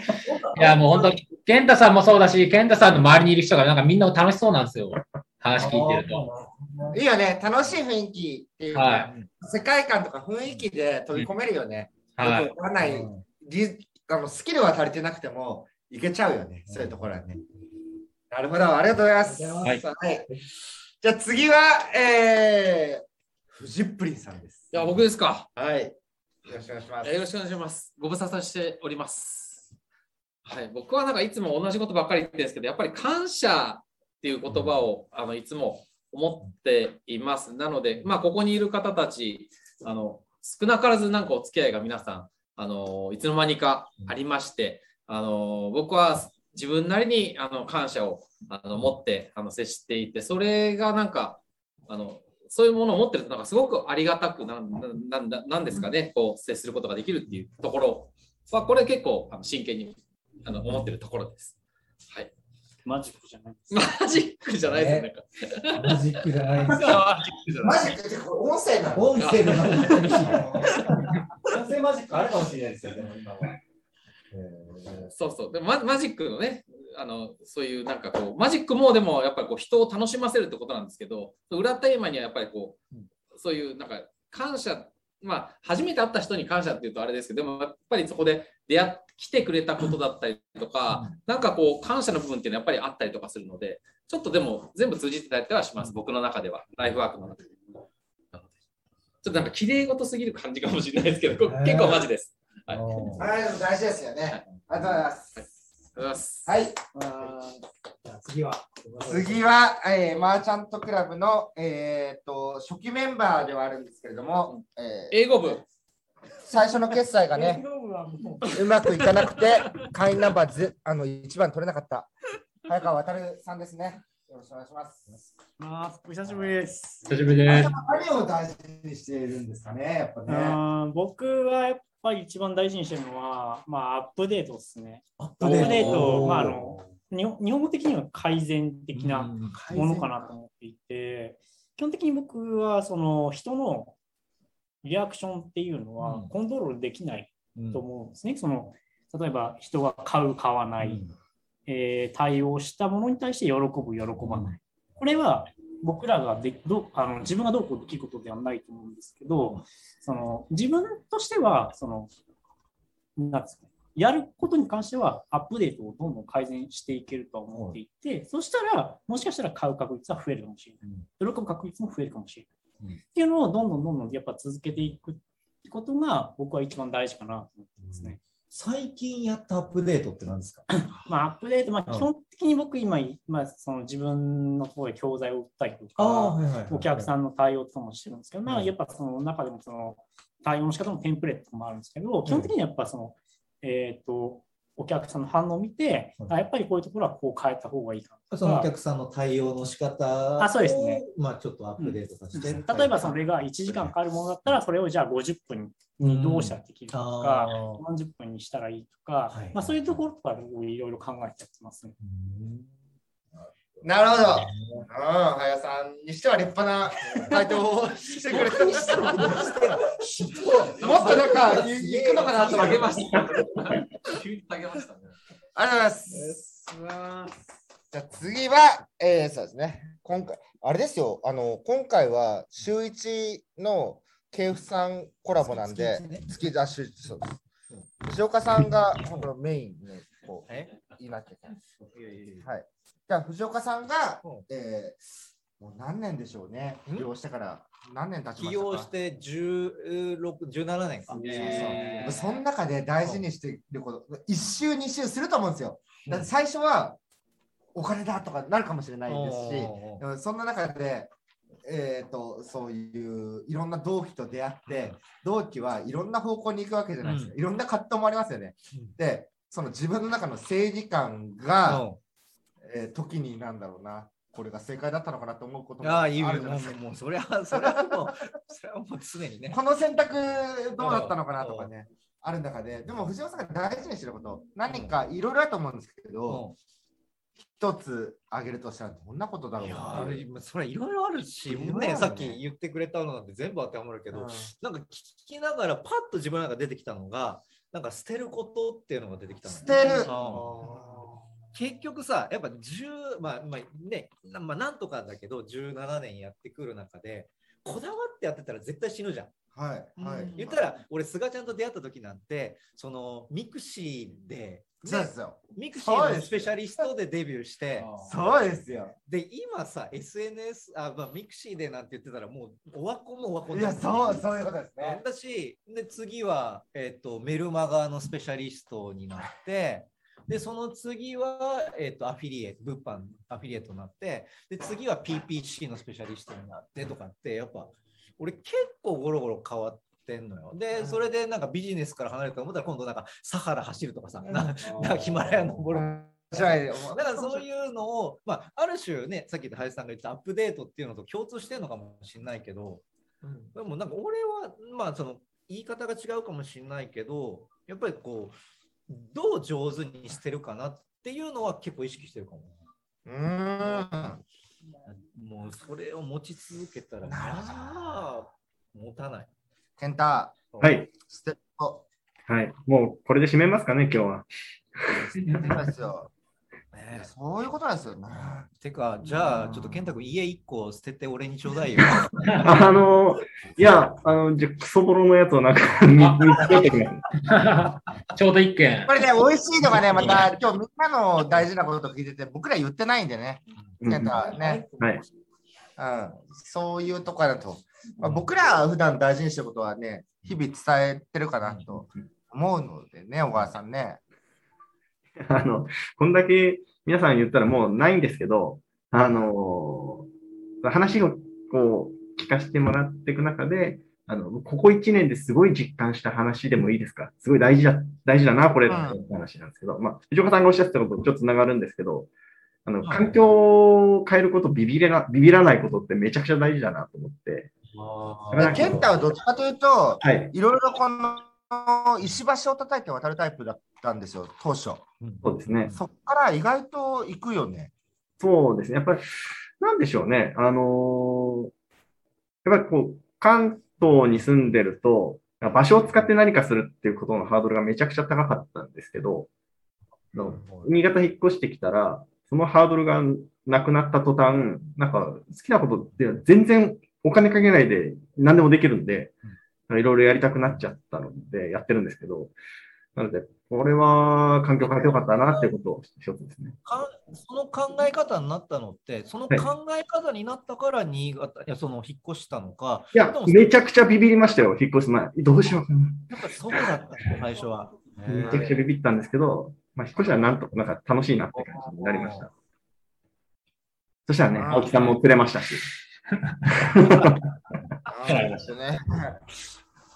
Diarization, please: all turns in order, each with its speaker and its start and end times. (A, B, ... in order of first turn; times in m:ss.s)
0:00.5-0:06.3 A
0:05.5-0:07.0 B
0:06.9-0:17.2 C
0:08.7-0:09.1 A
0:12.2-0:12.5 A
0:12.8-0:13.2 B
0:16.7-0:17.4 B
0:18.3-0:20.3 C
0:21.0-0:24.8 C
0:24.7-0:25.5 D
0:25.6-0:27.2 C
0:27.0-0:29.7 D
0:30.5-1:02.3 D
0:34.5-0:34.7 B
1:02.9-1:03.8 E
1:03.7-1:07.9 D
1:04.6-1:05.1 B
1:05.7-1:07.0 B
1:07.6-1:09.3 C
1:09.0-1:10.6 B
1:09.2-1:11.0 D
1:10.1-1:10.8 C
1:11.5-1:12.2 B
1:11.6-1:13.5 C
1:14.7-1:15.1 C
1:15.1-1:37.8 D
1:30.9-1:31.2 B
1:39.2-1:43.3 D
1:41.4-1:42.1 B
1:42.7-1:43.3 B
1:43.2-1:45.4 C
1:45.4-1:47.6 D
1:46.5-1:46.8 C
1:48.0-1:49.4 B
1:49.0-1:55.6 C
1:54.5-1:55.6 D
1:56.4-1:57.6 C
1:57.3-1:58.5 E
1:58.5-2:02.1 C
1:59.0-1:59.9 D
2:02.6-2:05.1 C
2:05.6-2:07.1 E
2:07.1-2:07.7 A
2:07.4-2:10.6 C
2:10.3-2:24.0 E
2:15.2-2:16.9 B
2:15.6-2:16.2 A
2:19.0-2:20.0 B
2:24.8-2:31.0 E
2:26.0-2:26.3 B
2:27.6-2:27.8 B
2:30.8-2:31.1 B
2:31.7-2:42.1 E
2:34.2-2:34.6 B
2:43.2-2:52.5 E
2:47.5-2:47.8 B
2:53.1-2:58.2 E
2:57.8-3:01.0 B
3:00.8-3:18.7 E
3:06.0-3:07.1 B
3:08.5-3:08.7 B
3:12.2-3:12.5 B
3:18.3-3:23.9 B
3:20.4-3:21.0 E
3:21.8-3:32.0 E
3:26.0-3:27.8 B
3:29.3-3:30.0 B
3:32.0-3:32.7 B
3:33.8-3:39.4 C
3:34.2-3:34.9 B
3:37.1-3:37.4 B
3:38.3-3:42.9 B
3:38.9-3:39.4 D
3:40.7-3:45.2 D
3:40.8-3:43.0 C
3:45.6-3:46.4 C
3:46.2-3:47.3 D
3:47.9-3:57.4 C
3:55.4-3:56.3 B
3:58.0-4:01.6 C
3:59.0-3:59.3 B
4:01.9-4:02.5 B
4:02.4-4:05.0 C
4:05.6-4:08.9 C
4:08.4-4:12.2 B
4:11.1-4:12.2 D
4:11.2-4:17.0 C
4:16.0-4:16.3 B
4:17.8-4:21.1 C
4:19.1-4:20.0 B
4:21.6-4:31.8 C
4:24.7-4:25.0 B
4:27.0-4:27.4 B
4:31.7-4:32.0 B
4:32.6-4:36.8 C
4:35.8-4:39.6 B
4:37.6-4:38.2 C
4:39.5-4:46.4 C
4:40.8-4:41.7 B
4:44.7-4:45.0 B
4:46.3-4:46.6 B
4:47.4-4:50.2 C
4:49.6-5:09.3 B
4:51.5-4:52.4 C
4:54.1-4:54.5 C
4:59.5-5:01.1 C
5:09.5-5:10.6 C
5:10.0-5:18.4 B
5:14.8-5:16.8 C
5:17.9-5:19.0 C
5:19.0-5:24.2 B
5:23.5-5:25.0 C
5:24.8-5:52.8 B
5:44.3-5:47.4 C
5:53.5-5:58.4 B
5:58.9-6:02.6 B
6:03.1-6:04.2 C
6:04.9-6:09.3 B
6:07.1-6:07.8 C
6:09.8-6:10.5 C
6:10.5-6:10.8 B
6:10.6-6:10.9 F
6:11.0-6:11.9 C
6:12.3-6:15.0 F
6:15.2-6:16.1 C
6:15.3-6:15.6 B
6:16.7-6:17.1 B
6:16.9-6:18.5 C
6:18.2-6:22.4 B
6:22.4-6:27.1 F
6:26.0-6:26.7 A
6:27.2-6:29.0 A
6:28.9-6:34.7 C
6:29.7-6:30.2 B
6:33.8-6:35.0 F
6:35.8-6:44.0 C
6:38.0-6:38.3 B
6:41.4-6:41.8 B
6:45.2-6:50.1 F
6:50.6-7:02.1 F
6:58.7-6:59.0 C
7:02.6-7:07.5 F
7:02.8-7:03.2 B
7:07.7-7:09.0 B
7:08.3-7:08.9 F
7:08.4-7:14.9 C
7:10.0-7:10.3 F
7:15.0-7:15.8 B
7:15.2-7:15.8 F
7:15.7-7:17.7 C
7:18.2-7:19.0 F
7:19.6-7:21.5 F
7:22.4-7:29.3 F
7:30.1-7:42.4 F
7:30.2-7:30.7 B
7:43.0-7:46.6 F
7:44.6-7:45.5 B
7:46.6-7:53.6 B
7:52.9-7:56.7 F
7:56.1-7:58.6 B
7:58.0-8:02.3 F
8:01.4-8:02.3 B
8:04.1-8:05.6 F
8:04.4-8:04.8 C
8:06.6-8:07.2 F
8:07.9-8:09.1 C
8:08.0-8:08.5 A